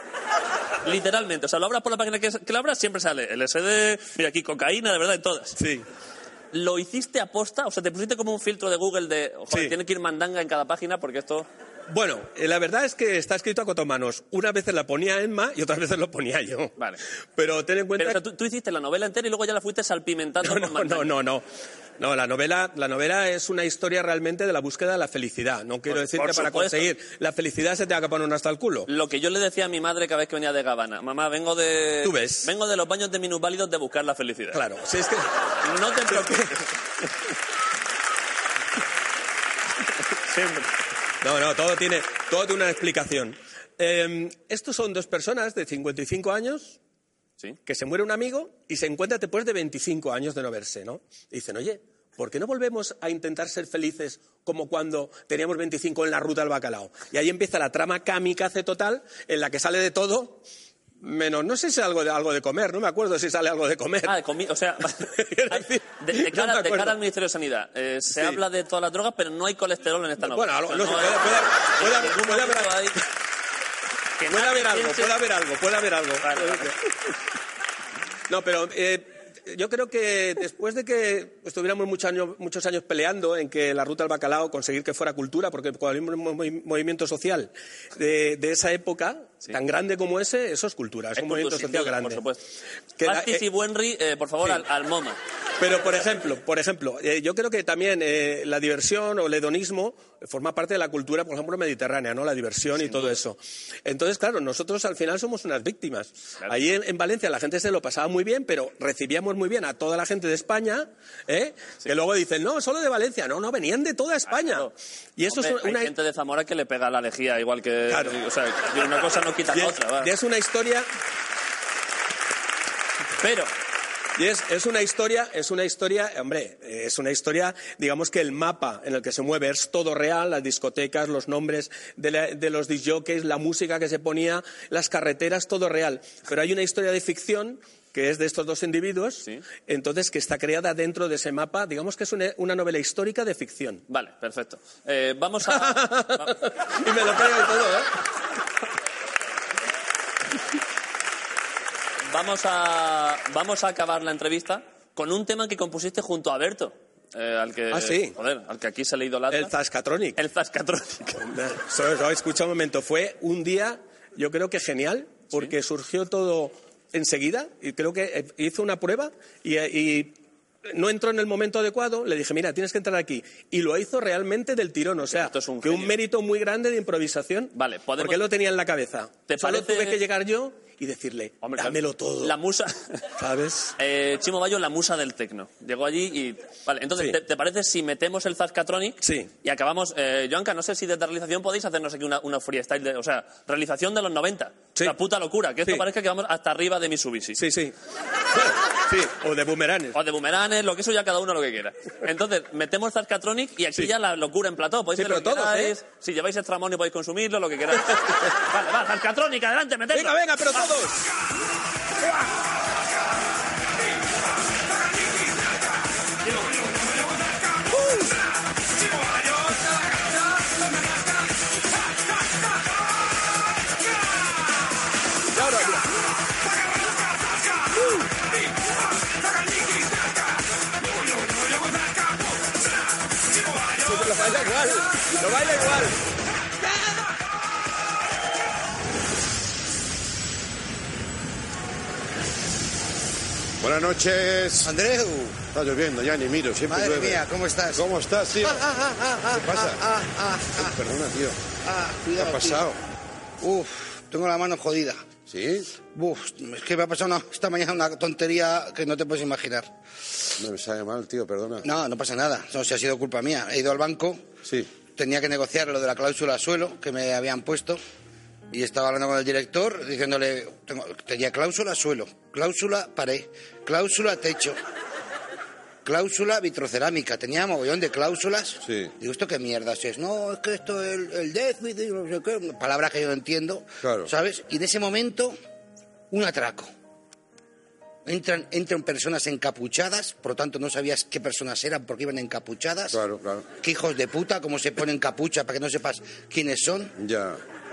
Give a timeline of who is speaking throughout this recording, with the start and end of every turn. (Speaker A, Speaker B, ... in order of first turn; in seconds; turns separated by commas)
Speaker A: 0.8-5.6, Speaker B: 5.5-5.8, Speaker A: 6.5-11.5, Speaker B: 11.9-18.2, Speaker A: 18.0-21.1, Speaker B: 20.4-21.4, Speaker B: 22.0-28.9, Speaker A: 25.9-26.9, Speaker A: 28.9-34.6, Speaker B: 32.0-32.5, Speaker B: 34.5-35.3, Speaker A: 35.6-36.7, Speaker B: 36.1-36.5, Speaker A: 40.3-40.7, Speaker B: 41.2-46.8, Speaker B: 47.6-60.4, Speaker B: 61.0-64.2, Speaker A: 64.0-73.0, Speaker B: 65.0-67.0, Speaker B: 68.1-68.4, Speaker B: 70.2-72.9, Speaker A: 74.2-75.2, Speaker B: 74.3-76.8, Speaker A: 76.2-76.7, Speaker B: 78.3-92.2, Speaker A: 91.2-92.4, Speaker B: 93.0-93.5, Speaker A: 93.0-95.2, Speaker B: 95.6-115.9, Speaker A: 102.8-103.2, Speaker A: 114.3-114.7, Speaker A: 115.3-120.1, Speaker B: 117.9-118.2, Speaker B: 119.5-120.9, Speaker A: 123.2-123.5, Speaker B: 124.2-143.8, Speaker A: 143.9-146.3, Speaker B: 145.5-147.9, Speaker A: 152.1-159.5, Speaker B: 157.7-158.2, Speaker B: 159.3-160.2, Speaker A: 160.2-161.3, Speaker B: 161.2-182.3, Speaker A: 175.1-175.9, Speaker A: 177.5-178.2, Speaker A: 179.3-180.0, Speaker A: 181.4-183.1, Speaker B: 183.2-183.7, Speaker A: 183.8-197.4, Speaker B: 189.0-189.3, Speaker B: 197.3-197.7, Speaker B: 198.3-200.0, Speaker A: 199.9-210.7, Speaker B: 204.9-205.8, Speaker B: 209.9-210.9, Speaker B: 225.4-225.8, Speaker B: 233.8-235.8, Speaker C: 243.6-244.7, Speaker D: 244.6-245.4, Speaker C: 245.4-247.2, Speaker D: 246.7-247.8, Speaker C: 247.7-248.7, Speaker D: 248.4-250.8, Speaker C: 249.3-249.8, Speaker C: 250.6-251.4, Speaker D: 251.6-252.7, Speaker C: 252.2-252.8, Speaker D: 253.4-255.0, Speaker C: 255.3-255.7, Speaker D: 255.9-259.7, Speaker C: 260.4-261.6, Speaker D: 261.6-264.2, Speaker C: 264.4-264.7, Speaker D: 264.8-267.8, Speaker D: 268.5-274.6, Speaker D: 275.8-285.4, Speaker C: 278.6-278.9, Speaker C: 283.8-284.1, Speaker D: 286.1-286.7, Speaker D: 288.1-293.0, Speaker C: 292.9-293.4, Speaker D: 293.6-296.9, Speaker C: 297.0-297.4